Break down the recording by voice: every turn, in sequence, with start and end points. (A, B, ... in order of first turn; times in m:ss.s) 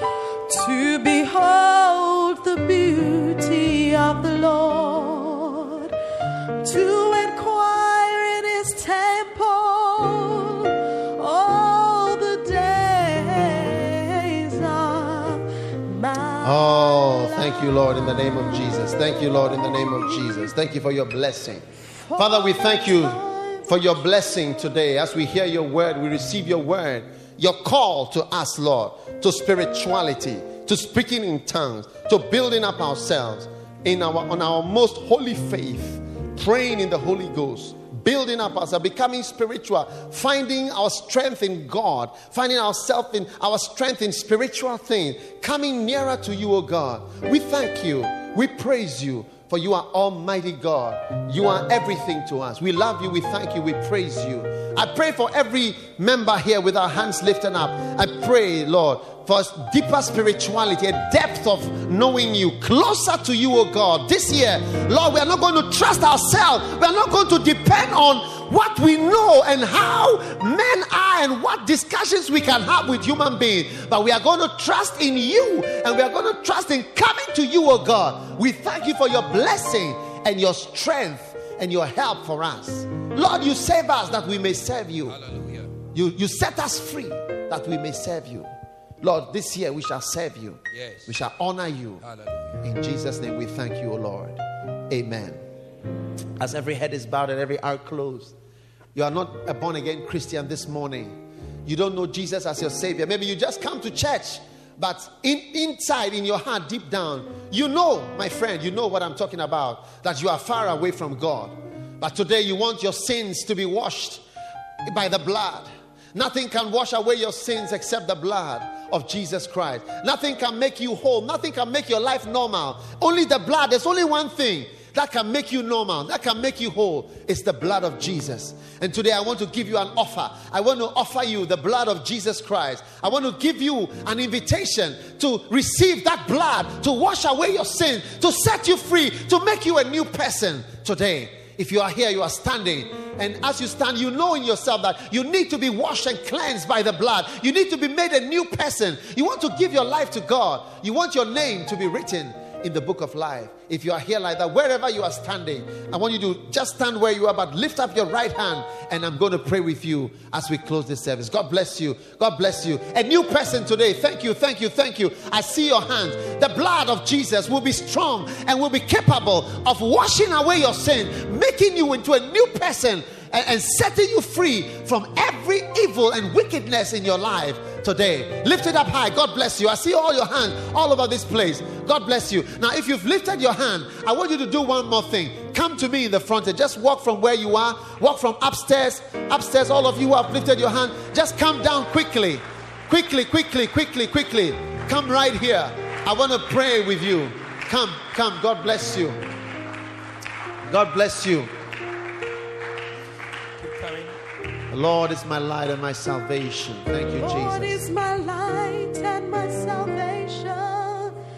0:00.5-0:05.9 A
0:06.6-0:20.5 A
0:16.4-0:21.6 B
0:22.0-0:23.7 A
0:22.2-1:25.2 B
1:25.1-1:25.8 C
1:25.9-1:32.0 B
1:30.7-1:31.2 C
1:32.0-1:32.6 C
1:32.6-1:35.4 B
1:36.4-1:38.4 B
1:39.0-1:54.2 B
1:54.8-3:19.2 B
3:20.7-3:21.5 B
3:23.6-3:24.2 C
3:24.7-3:27.8 B
3:27.2-3:31.2 A